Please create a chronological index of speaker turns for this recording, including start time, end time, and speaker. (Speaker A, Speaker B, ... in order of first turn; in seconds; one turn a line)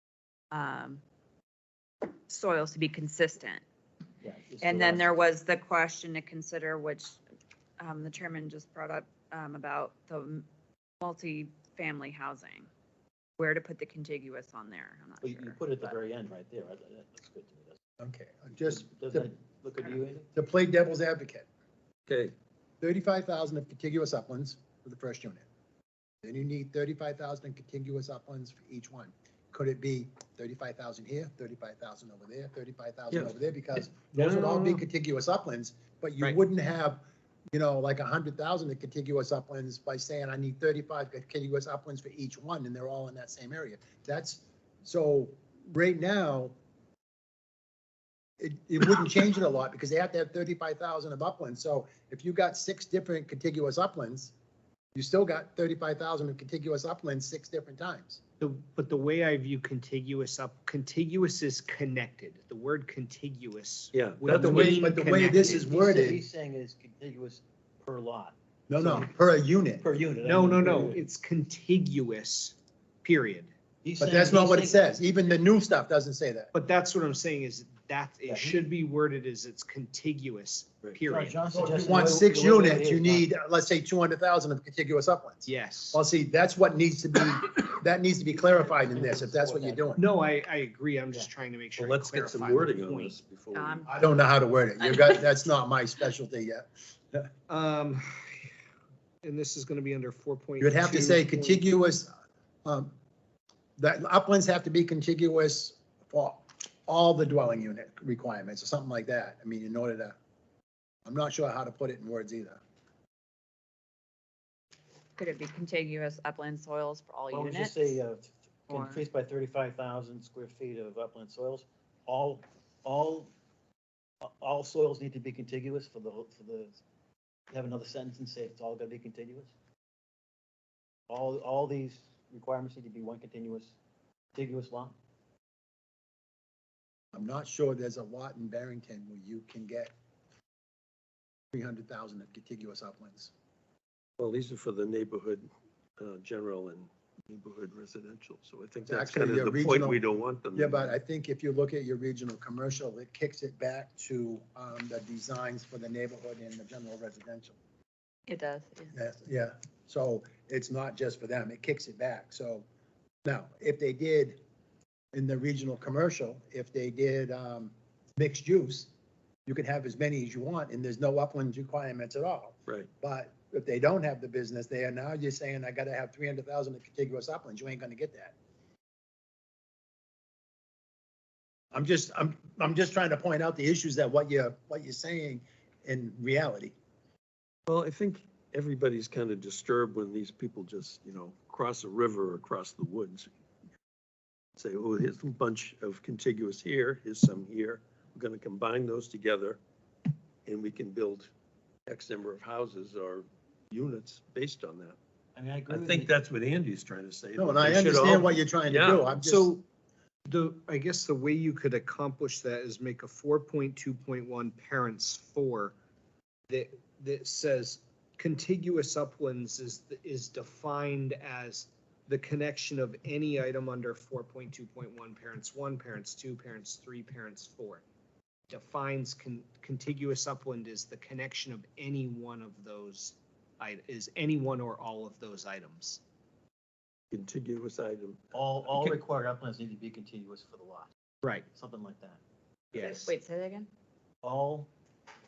Speaker A: 0.5-1.0
Speaker A: 2.2-3.6
Speaker B: 4.2-5.1
Speaker A: 4.6-7.2
Speaker A: 7.8-10.4
Speaker A: 11.0-12.7
Speaker A: 13.4-15.9
Speaker B: 15.2-17.8
Speaker C: 18.0-19.3
Speaker B: 18.7-20.3
Speaker C: 20.3-21.5
Speaker D: 22.1-22.3
Speaker C: 22.8-25.4
Speaker C: 26.2-37.0
Speaker D: 33.1-33.4
Speaker D: 34.0-34.6
Speaker C: 37.5-46.6
Speaker C: 48.4-54.3
Speaker C: 55.0-58.2
Speaker E: 58.4-65.7
Speaker D: 63.9-64.8
Speaker C: 64.4-66.2
Speaker B: 65.1-69.1
Speaker C: 68.7-69.8
Speaker B: 69.8-71.0
Speaker E: 70.2-73.5
Speaker B: 73.8-74.9
Speaker C: 74.0-76.5
Speaker E: 76.5-81.4
Speaker B: 78.3-78.6
Speaker B: 80.8-83.3
Speaker C: 81.5-90.0
Speaker E: 85.5-86.0
Speaker B: 88.7-89.9
Speaker E: 90.0-93.2
Speaker D: 91.8-93.9
Speaker A: 93.5-93.9
Speaker C: 93.9-97.3
Speaker A: 94.8-95.1
Speaker E: 97.5-98.5
Speaker E: 99.2-101.7
Speaker C: 100.6-102.1
Speaker C: 102.7-102.9
Speaker C: 103.8-110.2
Speaker C: 111.1-112.6
Speaker A: 115.2-118.0
Speaker B: 117.3-123.3
Speaker A: 118.7-119.0
Speaker B: 124.2-126.8
Speaker B: 127.5-129.5
Speaker B: 131.1-133.8
Speaker B: 134.3-134.9
Speaker C: 137.1-139.9
Speaker C: 141.5-143.3
Speaker D: 144.2-145.5
Speaker D: 146.0-151.0
Speaker C: 148.9-150.0
Speaker C: 150.5-157.6
Speaker A: 158.3-158.9
Speaker C: 158.9-162.7
Speaker C: 163.2-164.4
Speaker C: 165.1-168.9
Speaker C: 169.5-178.3
Speaker C: 181.7-186.8
Speaker D: 187.7-193.3
Speaker D: 194.6-199.6
Speaker D: 200.5-201.3
Speaker D: 201.9-205.0
Speaker B: 205.3-206.1
Speaker D: 205.7-209.1
Speaker C: 207.4-209.5
Speaker E: 209.2-209.7
Speaker E: 210.3-215.8
Speaker E: 216.5-227.8
Speaker E: 228.5-236.0
Speaker D: 237.1-239.0
Speaker B: 238.3-240.9
Speaker B: 241.5-242.2
Speaker E: 242.7-243.1
Speaker A: 242.8-243.7
Speaker B: 244.2-244.7